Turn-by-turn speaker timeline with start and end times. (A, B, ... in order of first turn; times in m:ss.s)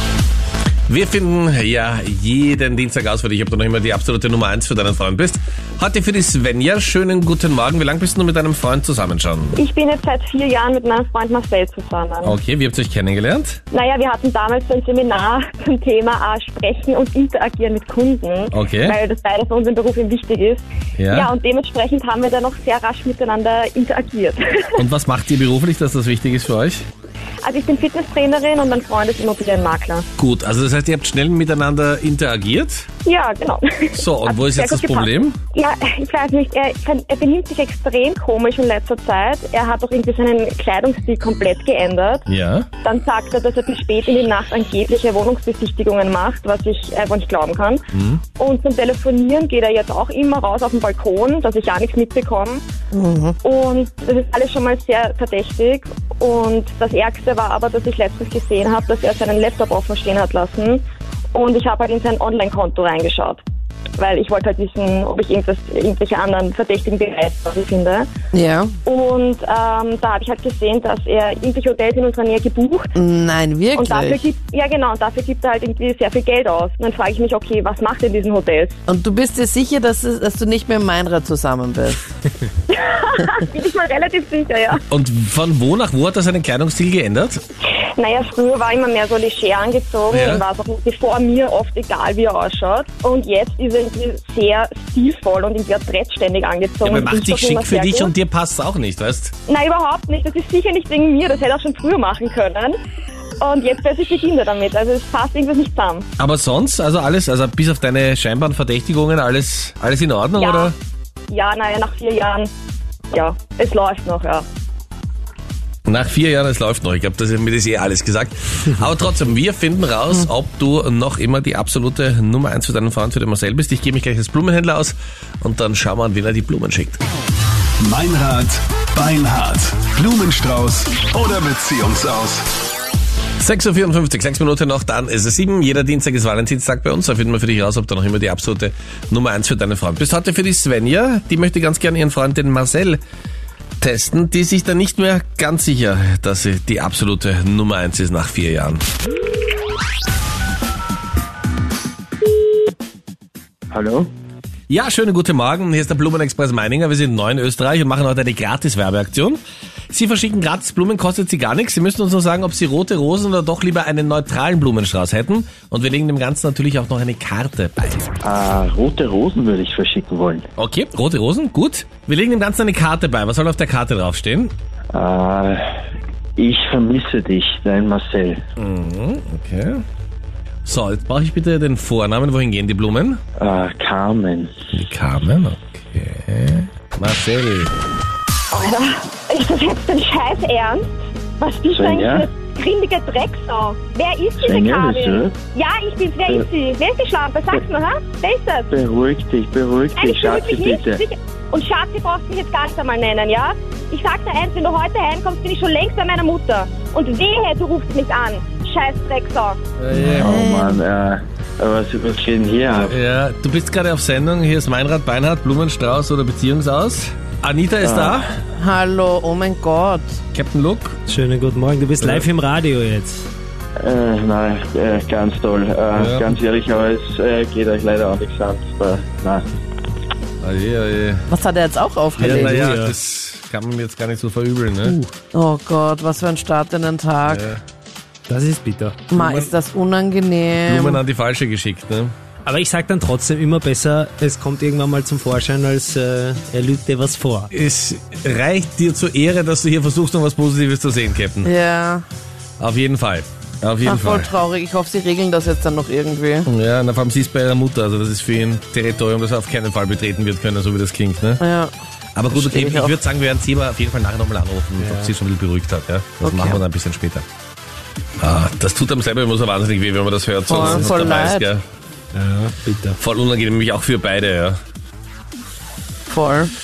0:00.9-0:09.6 A
0:09.5-0:12.4 B
0:12.2-0:13.6 A
0:13.7-0:24.8 B
0:18.5-0:19.0 A
0:21.0-0:21.3 A
0:24.8-0:26.8 A
0:27.4-0:30.0 B
0:30.2-0:32.9 A
0:33.0-0:42.2 B
0:33.9-0:35.4 A
0:42.3-0:42.7 A
0:42.8-0:47.8 B
0:47.9-0:48.2 A
0:48.4-0:52.6 B
0:52.9-0:53.4 C
0:53.4-1:00.8 B
1:01.3-1:03.4 B
1:04.0-1:08.1 B
1:08.3-1:08.7 C
1:08.8-1:12.9 B
1:13.0-1:14.2 C
1:13.7-1:18.8 B
1:18.9-1:22.0 C
1:22.7-1:24.8 B
1:24.9-1:27.4 A
1:28.0-1:38.1 B
1:30.1-1:30.4 A
1:36.8-1:39.3 A
1:39.5-1:42.8 B
1:43.4-1:46.0 B
1:46.2-1:50.7 A
1:50.3-1:50.7 B
1:51.3-1:52.5 B
1:53.1-1:54.4 B
1:55.8-2:07.0 A
2:07.8-2:12.4 D
2:13.4-2:23.0 A
2:23.8-2:28.8 A
2:33.7-2:34.1 E
2:34.7-2:39.4 A
2:39.9-2:48.1 A
2:48.2-2:50.4 E
2:50.6-2:54.5 A
2:54.9-2:55.7 E
2:56.4-2:58.4 E
2:58.6-2:59.8 A
3:00.6-3:03.2 A
3:03.4-3:04.5 E
3:04.7-3:07.7 A
3:08.5-3:18.7 B
3:11.7-3:12.3 E
3:14.4-3:15.4 E
3:18.7-3:21.0 E
3:20.0-3:29.6 B
3:29.8-3:30.4 A
3:29.9-3:30.8 C
3:30.0-3:32.9 E
3:32.8-3:38.3 A
3:37.8-3:38.3 E
3:38.6-3:40.2 C
3:40.3-3:41.0 A
3:41.1-3:43.3 F
3:42.0-3:42.3 A
3:43.8-3:49.5 E
3:45.9-3:46.3 A
3:50.4-3:51.2 A
3:51.3-3:52.6 C
3:52.2-3:52.9 F
3:52.2-3:55.0 A
3:55.3-3:57.4 C
3:57.2-3:57.6 A
3:58.3-3:59.1 F
3:59.1-4:01.0 C
3:59.1-3:59.5 A
4:00.6-4:02.1 A
4:02.4-4:07.5 F
4:07.5-4:11.5 A
4:11.4-4:12.0 C
4:12.6-4:14.3 A
4:13.8-4:16.5 C
4:16.4-4:21.4 A
4:21.4-4:21.7 C
4:22.2-4:27.2 A
4:22.3-4:23.0 C
4:24.8-4:25.1 F
4:26.2-4:26.6 C
4:28.2-4:31.6 A
4:30.5-4:31.5 C
4:30.6-4:31.0 F
4:32.1-4:33.0 F
4:33.0-4:34.6 A
4:36.1-4:36.5 C